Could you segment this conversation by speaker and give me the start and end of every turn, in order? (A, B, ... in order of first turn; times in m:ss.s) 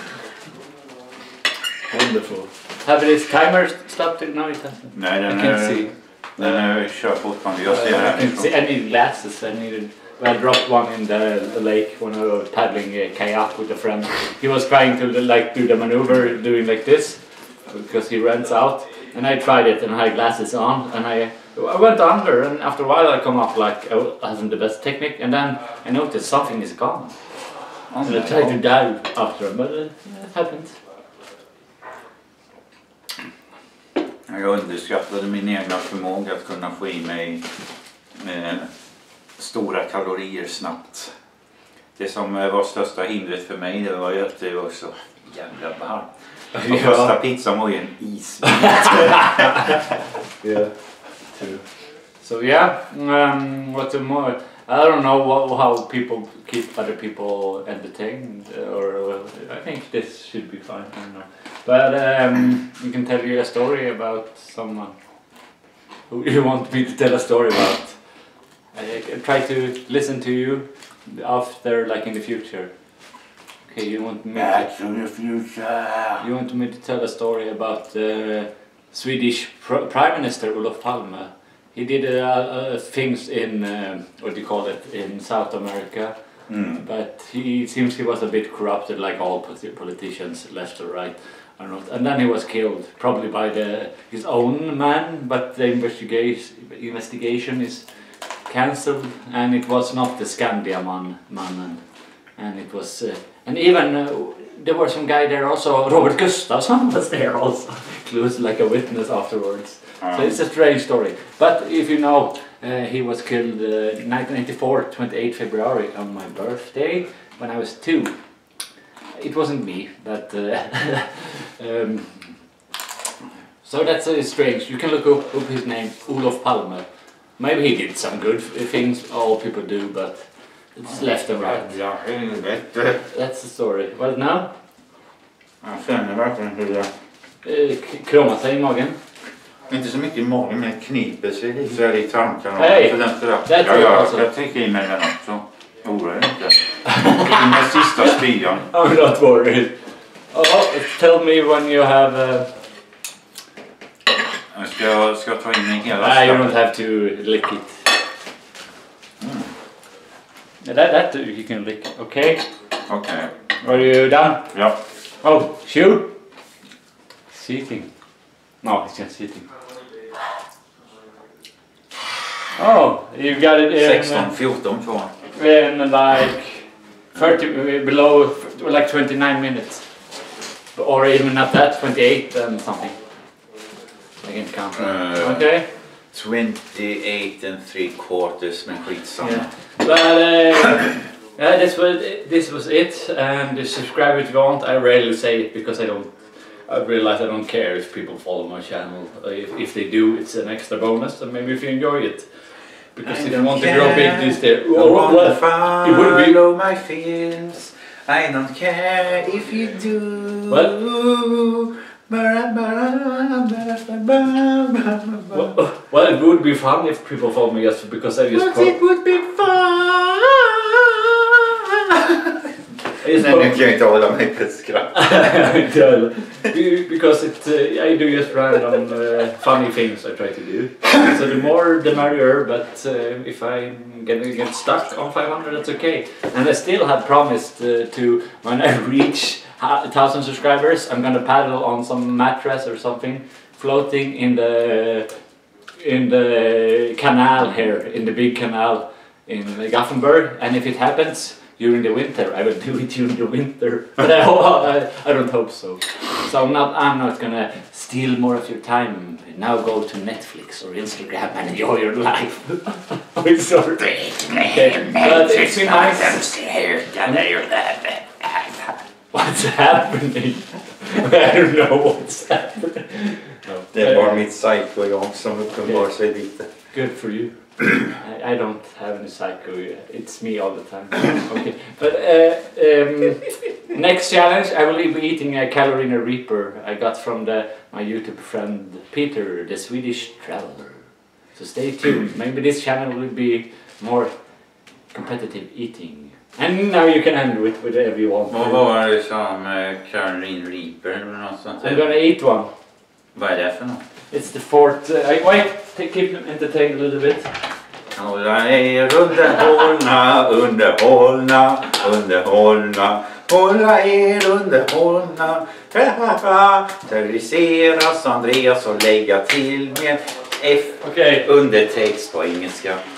0:01.9-0:06.6 A
0:04.9-0:08.5 B
0:07.6-0:27.2 A
0:27.9-0:28.6 B
0:28.0-0:30.8 A
0:34.3-0:37.4 B
0:38.2-0:38.7 B
0:39.4-0:41.1 B
0:42.0-0:49.8 B
0:46.5-0:47.2 A
0:48.5-0:49.6 A
0:50.4-0:50.7 A
0:51.3-0:51.6 A
0:52.2-1:05.0 A
1:06.1-1:08.0 A
1:08.7-1:12.7 A
1:13.7-1:14.7 A
1:14.3-1:16.2 B
1:16.2-1:26.1 A
1:26.5-1:26.8 B
1:26.8-1:37.9 A
1:38.5-1:41.8 A
1:42.4-1:58.1 A
1:50.0-1:50.4 B
1:59.2-2:02.3 A
2:03.6-2:06.9 A
2:07.4-2:11.7 A
2:10.9-2:13.0 B
2:13.1-2:14.5 A
2:15.6-2:16.9 B
2:17.4-2:19.0 A
2:19.7-2:28.7 B
2:22.6-2:24.3 A
2:26.8-2:29.8 A
2:30.3-2:32.5 A
2:34.5-2:36.6 B
2:36.0-2:37.9 A
2:39.2-2:39.5 B
2:40.6-2:42.5 A
2:42.9-2:43.3 B
2:43.6-2:44.5 A
2:44.5-2:44.8 B
2:45.2-2:46.1 A
2:47.3-2:47.9 A
2:48.6-2:49.5 A
2:52.6-2:54.3 A
2:53.7-2:55.1 B
2:55.3-2:59.9 A
3:00.8-3:03.0 A
3:04.2-3:05.7 A
3:04.8-3:05.6 B
3:06.1-3:09.5 B
3:09.2-3:22.3 A
3:22.9-3:26.4 A
3:23.0-3:35.5 B
3:30.5-3:30.8 A
3:35.3-3:38.8 A
3:38.3-3:42.5 B
3:43.0-3:43.6 A
3:43.0-3:45.5 B
3:44.9-4:05.1 A
4:05.8-4:26.3 A
4:23.8-4:28.8 B
4:29.1-4:34.2 A
4:33.7-4:36.5 B
4:36.7-4:54.1 A
4:54.9-4:58.6 A
4:58.3-5:01.8 B
5:01.6-5:02.5 A
5:03.2-5:03.8 B
5:04.1-5:07.3 A
5:07.9-5:22.8 B
5:20.8-5:21.3 A